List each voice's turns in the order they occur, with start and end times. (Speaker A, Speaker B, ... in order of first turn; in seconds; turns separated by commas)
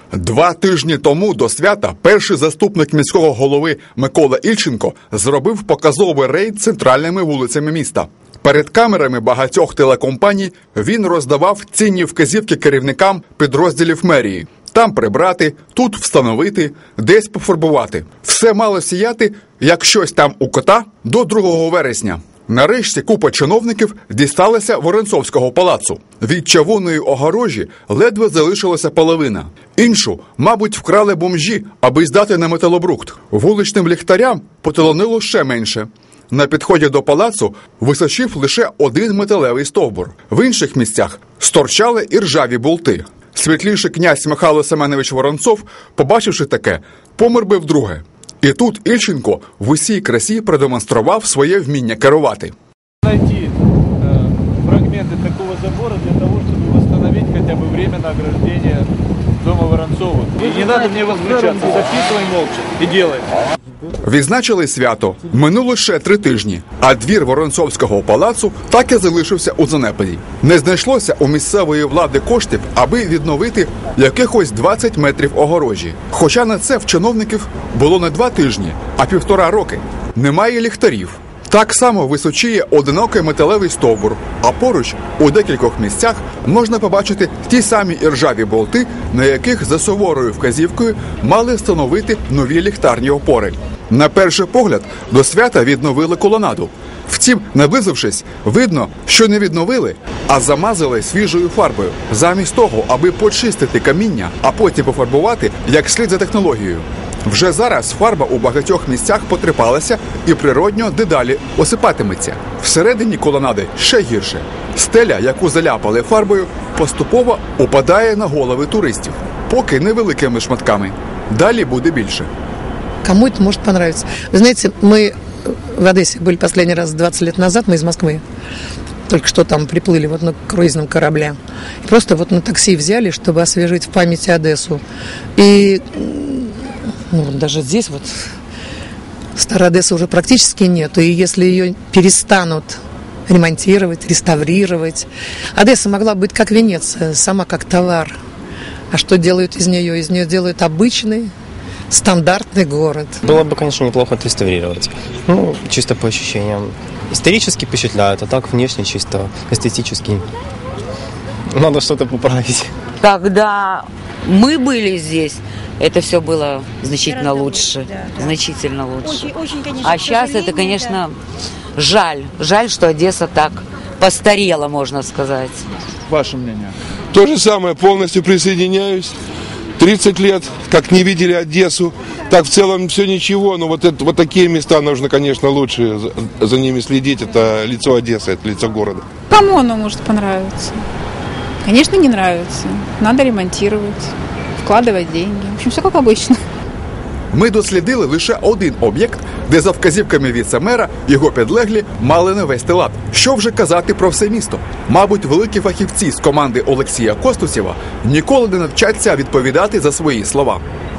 Speaker A: 0.1-52.5, Speaker B: 53.0-58.9, Speaker B: 59.4-63.3, Speaker A: 64.0-122.3, Speaker C: 123.0-125.1, Speaker C: 125.7-128.2, Speaker C: 129.1-134.8, Speaker C: 135.4-136.6, Speaker C: 137.1-138.3, Speaker C: 139.4-148.2, Speaker C: 148.9-151.3, Speaker C: 151.9-153.2, Speaker D: 153.2-160.2, Speaker D: 161.6-162.7, Speaker E: 163.0-171.2, Speaker E: 171.8-175.7, Speaker B: 176.1-176.7, Speaker F: 177.1-179.2, Speaker F: 179.8-189.1, Speaker G: 189.3-190.8, Speaker G: 191.6-196.4, Speaker A: 197.3-210.6